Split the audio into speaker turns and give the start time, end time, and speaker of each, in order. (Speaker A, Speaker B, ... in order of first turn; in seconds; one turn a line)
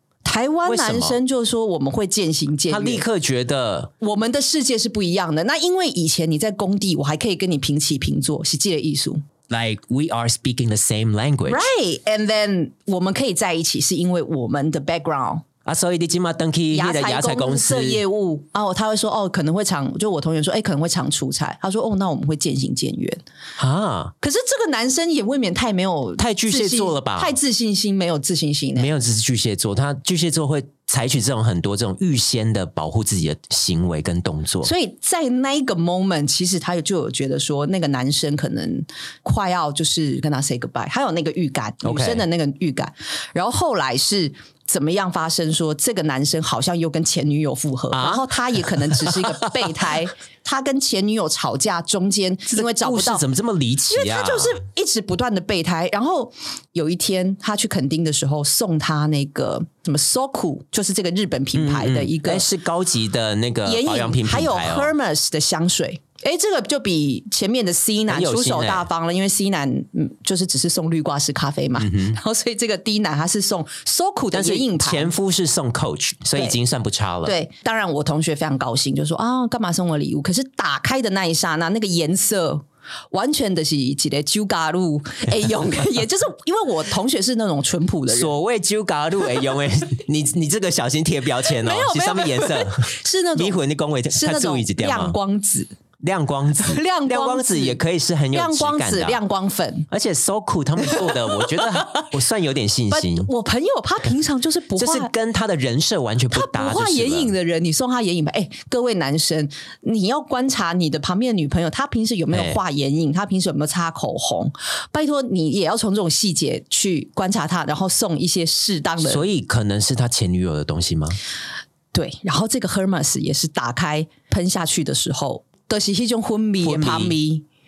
Speaker A: 0.2-3.0
Speaker B: 0.6-1.2
Speaker B: 2.7-3.9
Speaker A: 4.0-9.2
Speaker B: 9.5-11.7
Speaker A: 11.5-15.4
Speaker B: 15.6-18.0
Speaker A: 16.7-23.2
Speaker B: 23.6-24.1
Speaker A: 24.2-28.9
Speaker B: 26.2-27.4
Speaker B: 28.8-34.7
Speaker A: 34.6-53.2
Speaker B: 41.8-42.2
Speaker B: 47.9-49.6
Speaker B: 52.5-54.6
Speaker A: 53.9-62.5
Speaker B: 61.5-64.9
Speaker A: 63.6-75.1
Speaker B: 68.1-68.9
Speaker B: 71.8-72.2
Speaker B: 74.3-77.3
Speaker A: 77.2-88.3
Speaker B: 88.1-95.2
Speaker A: 91.5-93.6
Speaker A: 94.1-95.7
Speaker B: 96.0-99.2
Speaker A: 96.6-97.8
Speaker A: 98.3-99.9
Speaker B: 99.9-103.3
Speaker A: 100.8-102.1
Speaker A: 102.9-105.1
Speaker B: 104.8-107.3
Speaker A: 106.3-119.2
Speaker B: 112.3-112.6
Speaker B: 119.0-121.2
Speaker A: 121.9-127.5
Speaker B: 126.6-127.2